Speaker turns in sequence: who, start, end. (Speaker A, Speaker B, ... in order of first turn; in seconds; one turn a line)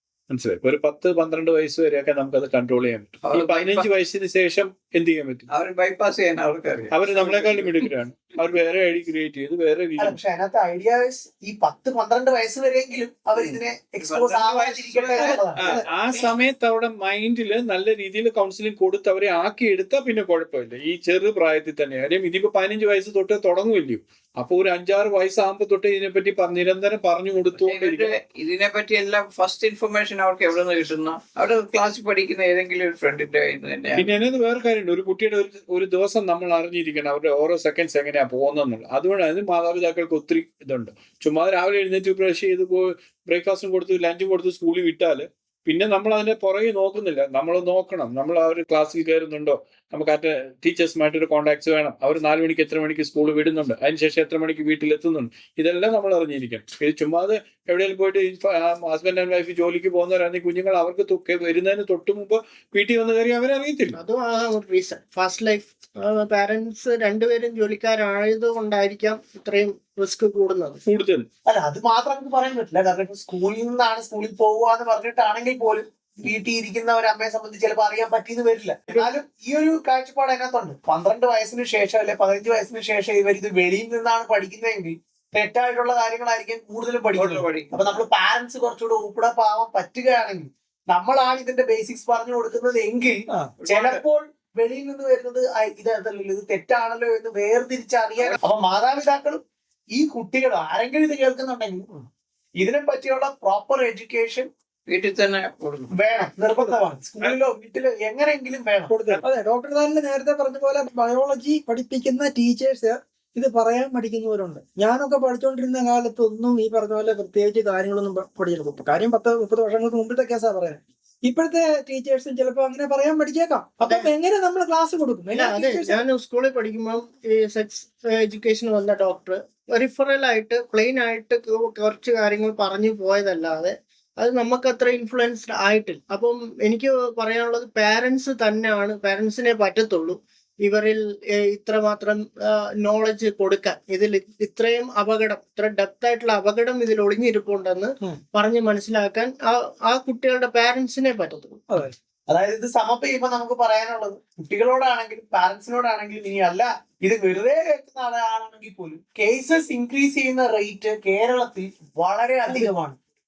Speaker A: 0.3-5.5
Speaker B: 3.2-3.9
Speaker B: 5.5-7.9
Speaker A: 6.9-10.2
Speaker C: 10.0-15.6
Speaker B: 13.3-15.4
Speaker A: 15.2-28.1
Speaker B: 27.6-34.0
Speaker A: 33.9-64.0
Speaker D: 63.9-70.8
Speaker A: 70.8-71.2
Speaker C: 71.5-99.4
Speaker B: 87.1-88.0
Speaker B: 93.6-94.0
Speaker C: 99.9-101.9
Speaker C: 102.6-104.5
Speaker B: 104.9-105.9
Speaker C: 105.9-108.9
Speaker E: 106.6-106.9
Speaker E: 108.9-126.0
Speaker D: 125.3-151.6
Speaker E: 151.7-151.9
Speaker C: 152.3-163.0